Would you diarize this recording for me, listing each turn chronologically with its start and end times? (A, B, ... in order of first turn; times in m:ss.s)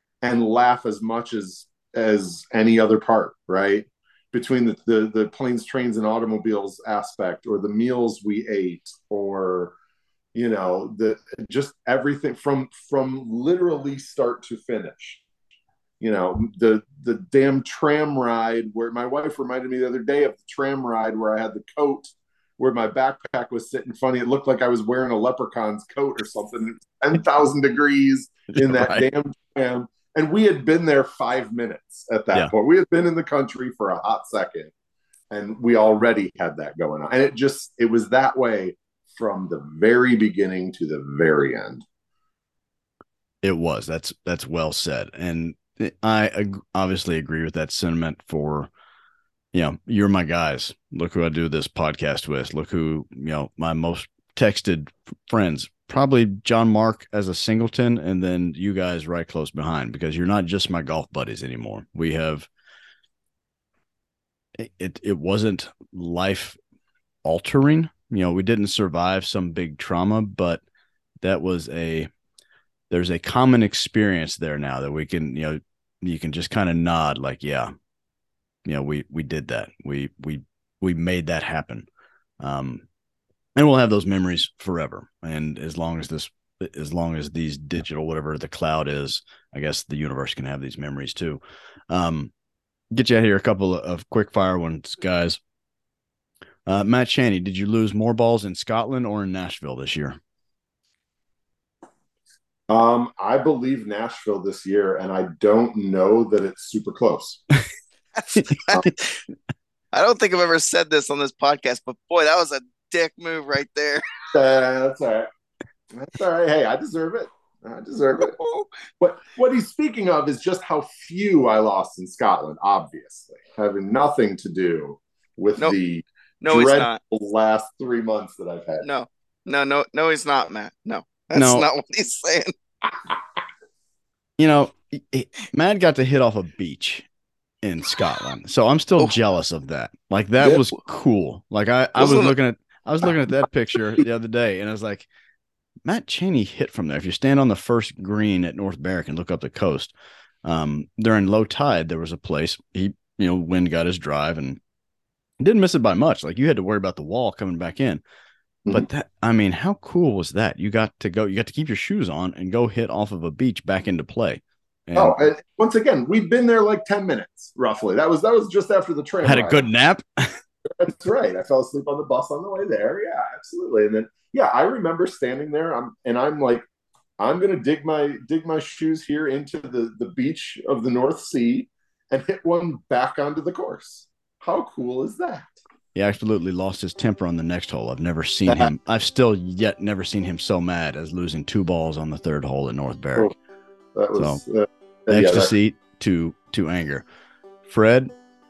0:00.2-0:09.8 A
0:10.3-0:15.2 A
0:16.0-0:34.7 A
0:28.5-0:29.0 B
0:35.3-0:41.8 A
0:43.4-0:48.7 B
0:49.5-1:02.5 B
1:04.6-1:06.6 B
1:07.2-1:10.6 B
1:11.2-1:12.1 B
1:12.9-1:17.7 B
1:18.6-1:21.9 B
1:22.4-1:22.8 B
1:23.6-1:32.3 B
1:32.9-1:35.4 B
1:36.6-1:40.2 B
1:42.7-1:47.4 A
1:48.1-1:49.2 C
1:49.9-1:54.0 C
1:54.3-1:55.3 A
1:55.9-1:58.4 A
1:59.0-2:08.8 A
2:06.4-2:07.0 C
2:08.8-2:12.5 C
2:11.3-2:11.7 B
2:14.4-2:17.1 B
2:17.6-2:25.1 B
2:22.0-2:22.3 C
2:25.8-2:34.6 B
2:35.4-2:38.0 B
2:38.7-2:45.3 B
2:45.0-2:49.7 A
2:49.2-2:50.4 B
2:50.7-2:56.6 A
2:57.2-3:05.6 A
3:05.9-3:13.3 B
3:13.9-3:15.5 A
3:14.2-3:14.4 B
3:15.1-3:17.0 B
3:17.6-3:18.1 B